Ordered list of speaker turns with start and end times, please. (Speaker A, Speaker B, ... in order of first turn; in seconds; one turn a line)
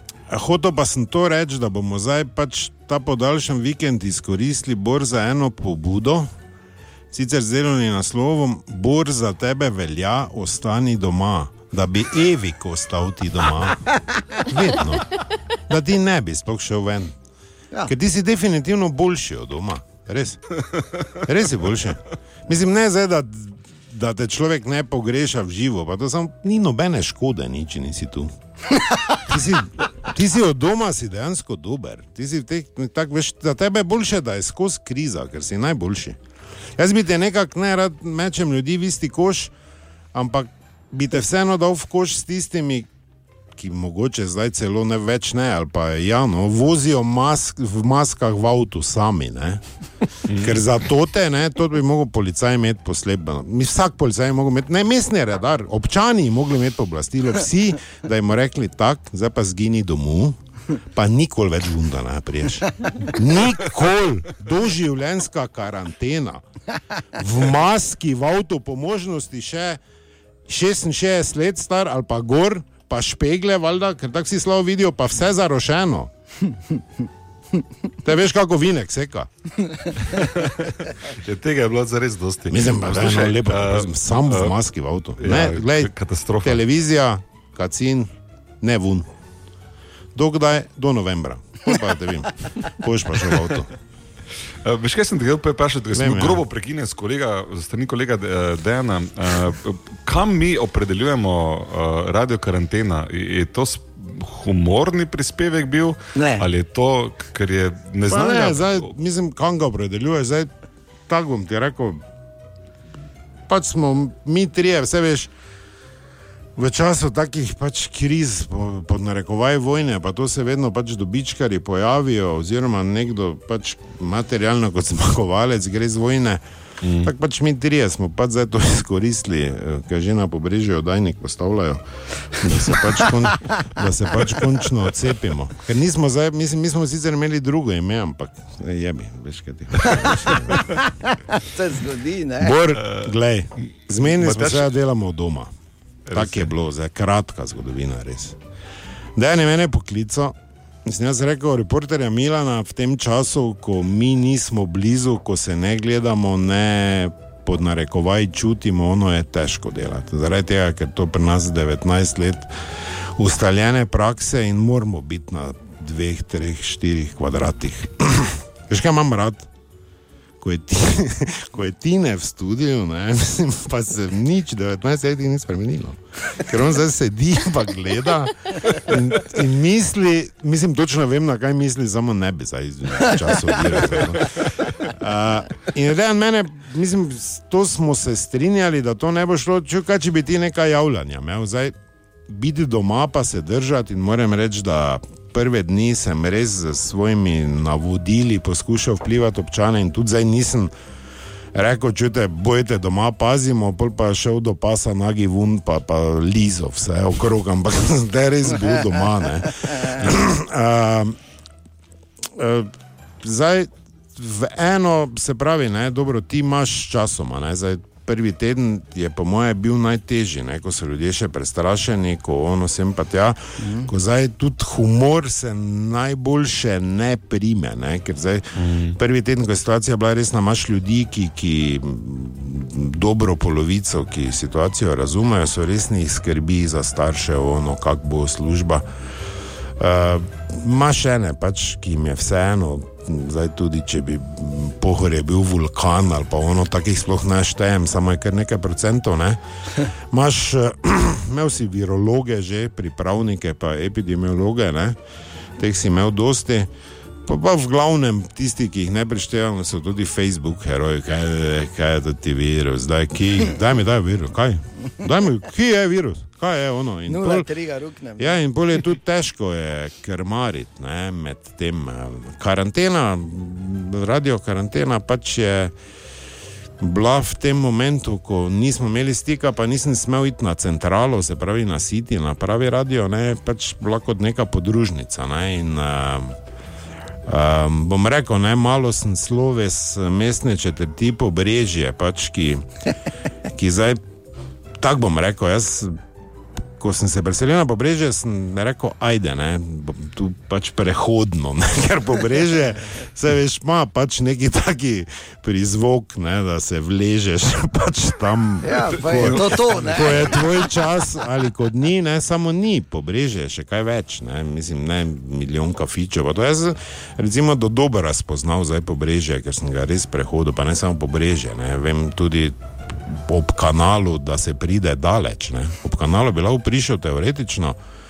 Speaker A: 0.3-6.3
Speaker A: 7.1-17.1
Speaker A: 17.9-28.3
Speaker A: 29.1-36.2
Speaker A: 36.8-39.5
Speaker A: 40.1-42.9
Speaker A: 43.5-49.6
Speaker B: 50.3-50.6
Speaker A: 50.4-66.4
Speaker A: 67.2-69.8
Speaker A: 70.5-76.1
Speaker A: 78.0-79.3
Speaker B: 80.1-84.5
Speaker A: 82.5-85.9
Speaker B: 85.2-86.6
Speaker A: 86.4-89.1
Speaker A: 90.1-93.7
Speaker B: 94.7-108.9
Speaker A: 95.9-96.4
Speaker C: 106.1-106.5
Speaker A: 108.1-110.5
Speaker A: 111.1-112.0
Speaker A: 113.5-115.3
Speaker A: 116.6-126.4
Speaker B: 126.8-127.1
Speaker A: 127.0-140.8
Speaker C: 141.3-142.6
Speaker A: 142.4-145.5
Speaker B: 142.8-143.1
Speaker B: 144.1-144.7
Speaker B: 146.1-146.5
Speaker A: 146.1-148.3
Speaker A: 149.2-150.3
Speaker A: 150.8-162.5
Speaker A: 163.2-169.5
Speaker A: 170.4-191.7
Speaker A: 192.3-200.7
Speaker A: 201.5-211.2
Speaker A: 212.3-212.7
Speaker A: 213.2-228.4
Speaker C: 223.6-223.9
Speaker B: 228.6-228.9
Speaker A: 228.9-238.8
Speaker A: 239.8-255.0
Speaker A: 255.6-256.7
Speaker A: 257.2-267.4
Speaker C: 267.1-268.4
Speaker A: 268.2-275.7
Speaker A: 276.8-286.3
Speaker A: 287.3-292.7
Speaker A: 293.5-294.0
Speaker A: 294.8-296.0
Speaker A: 296.8-327.8
Speaker C: 308.6-310.4
Speaker B: 309.2-310.2